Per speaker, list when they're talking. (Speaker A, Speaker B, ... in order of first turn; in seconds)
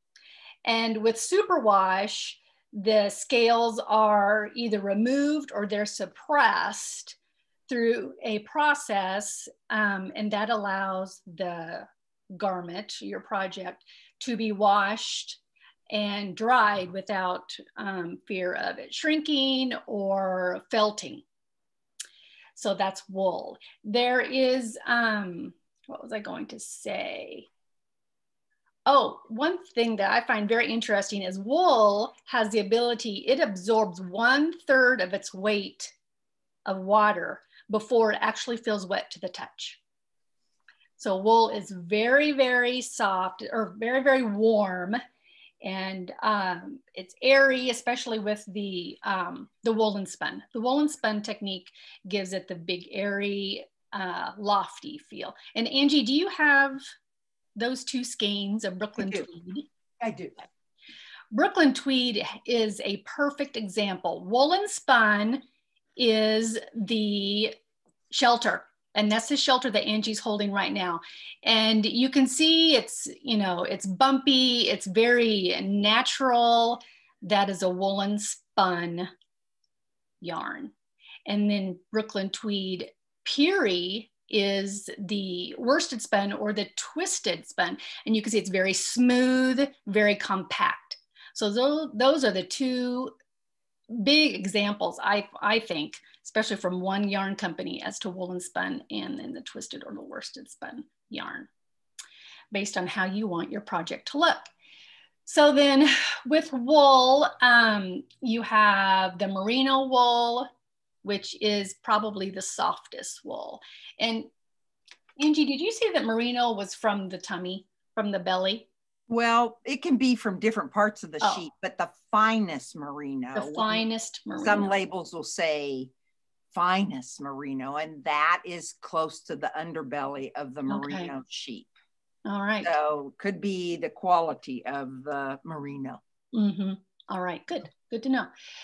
Speaker A: 0.6-7.2, 7.7-15.4, 15.9-21.2, 22.6-27.5, 28.9-35.9, 36.6-39.8, 41.0-45.0, 45.6-56.9, 57.5-59.7, 61.3-65.4, 66.0-67.5, 68.1-79.1, 80.2-80.7, 81.2-93.1, 93.9-101.5, 102.5-104.5, 105.2-110.5, 111.0-114.3, 115.2-118.7, 123.3-124.8, 130.7-131.1, 132.2-132.7, 136.3-138.3
Speaker B: 59.0-59.3, 60.0-60.4, 119.1-123.8, 124.4-125.9, 126.5-131.7, 132.6-136.0